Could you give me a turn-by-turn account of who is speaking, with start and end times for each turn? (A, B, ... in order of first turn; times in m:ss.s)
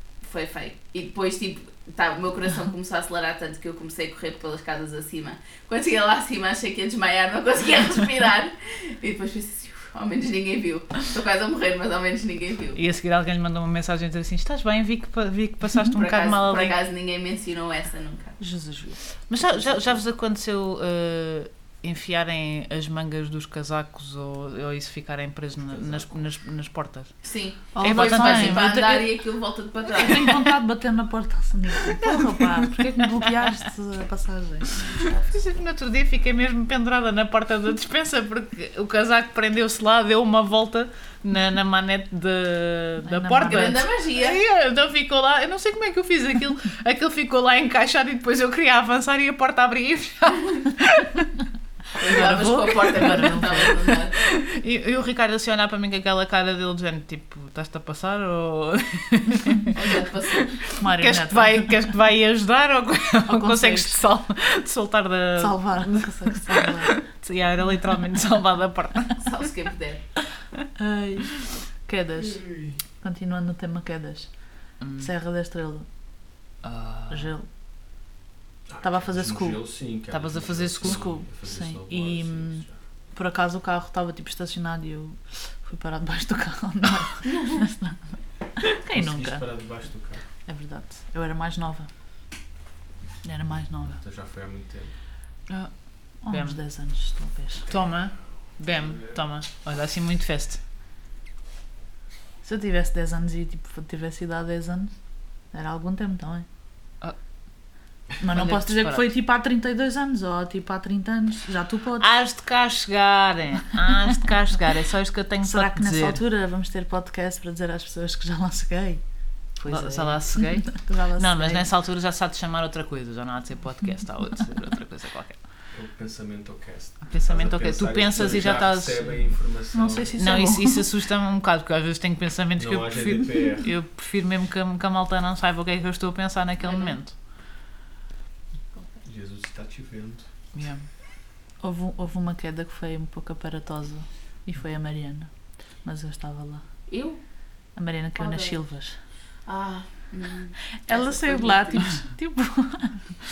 0:00.2-0:12.8 A
0:12.7-0:16.7 B
0:15.9-0:18.4 A
0:18.4-0:19.0 C
0:19.3-0:27.1 B
0:25.7-0:26.2 D
0:27.2-0:30.4 A
0:27.7-0:29.1 C
0:27.8-0:28.7 B
0:30.0-0:34.8 C
0:35.2-0:51.3 B
0:43.0-0:43.8 C
0:43.4-0:44.4 A
0:52.0-0:54.1 A
0:52.1-0:53.7 C
0:52.1-0:59.7 B
0:59.7-1:00.6 A
1:00.4-1:09.3 B
1:00.8-1:01.7 C
1:03.3-1:04.0 C
1:05.4-1:07.0 C
1:09.2-1:10.0 A
1:10.8-1:11.3 C
1:11.8-1:12.4 C
1:12.2-1:12.8 D
1:13.0-1:14.3 C
1:14.8-1:15.1 B
1:15.0-1:15.8 C
1:16.6-1:17.3 B
1:17.1-1:17.5 C
1:18.7-1:22.8 D
1:18.8-1:19.6 C
1:20.1-1:21.0 B
1:20.8-1:28.0 C
1:27.2-1:27.6 A
1:28.6-1:29.5 C
1:28.9-1:30.2 D
1:30.5-1:31.9 C
1:33.2-1:34.0 C
1:34.0-1:34.9 D
1:35.5-1:36.6 B
1:36.2-1:37.7 C
1:37.7-1:40.6 B
1:38.8-1:39.1 D
1:42.4-1:44.9 C
1:45.5-1:46.4 C
1:48.2-1:52.1 C
1:48.3-1:49.0 B
1:52.0-1:56.2 B
1:55.4-1:59.0 C
1:59.6-2:01.7 C
1:59.7-2:05.4 B
2:05.7-2:10.1 D
2:07.0-2:09.1 B
2:09.7-2:10.8 C
2:10.2-2:17.1 B
2:12.6-2:13.7 D
2:16.6-2:17.0 A
2:19.0-2:20.3 D
2:20.5-2:20.8 B
2:21.6-2:25.3 C
2:25.8-2:26.6 C
2:26.9-2:27.2 A
2:27.8-2:29.0 C
2:28.2-2:28.6 A
2:29.4-2:32.0 A
2:30.8-2:33.0 C